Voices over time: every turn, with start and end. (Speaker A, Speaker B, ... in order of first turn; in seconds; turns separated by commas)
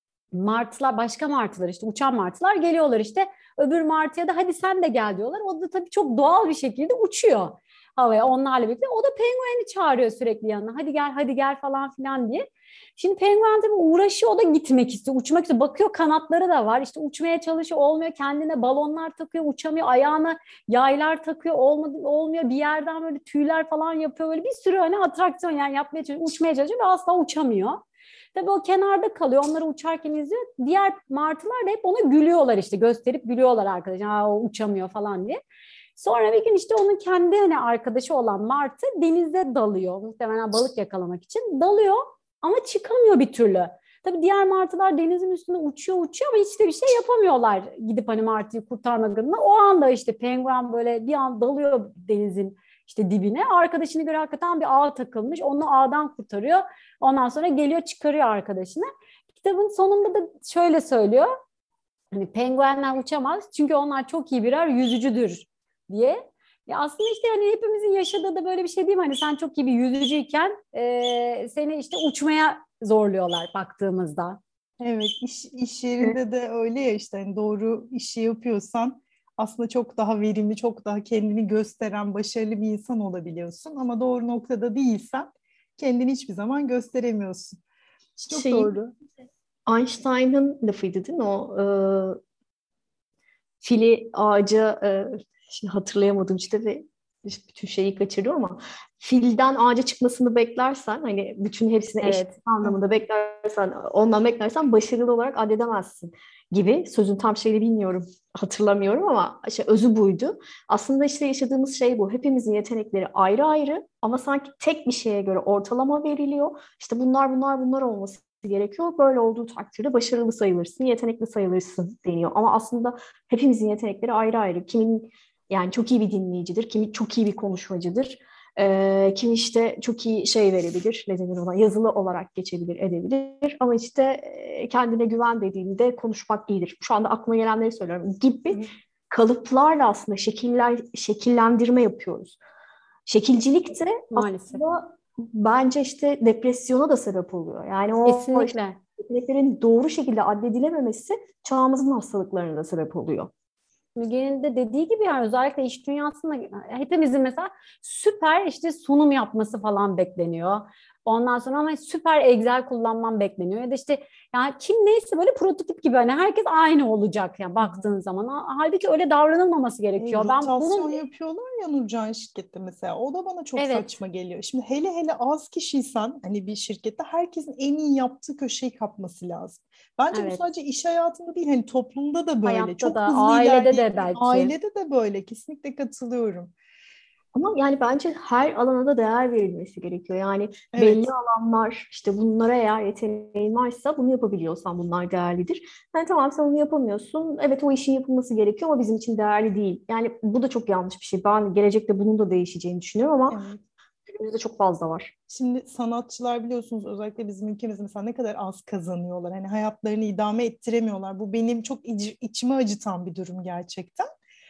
Speaker A: 0.3-27.8, Speaker A: 28.4-35.4, Speaker A: 36.0-61.3, Speaker A: 62.1-74.4, Speaker B: 74.8-87.6, Speaker C: 88.2-88.8, Speaker B: 88.2-88.9, Speaker C: 89.7-92.2, Speaker C: 93.6-142.4, Speaker A: 102.0-102.4, Speaker C: 143.1-153.3, Speaker A: 144.1-144.6, Speaker A: 148.1-148.8, Speaker A: 154.0-171.0, Speaker B: 167.6-167.9, Speaker B: 170.0-186.5, Speaker A: 173.6-173.9, Speaker A: 180.1-180.5, Speaker A: 182.4-184.5, Speaker C: 187.3-203.4, Speaker B: 190.7-191.1, Speaker B: 203.3-203.6, Speaker C: 204.2-205.1, Speaker B: 205.3-214.1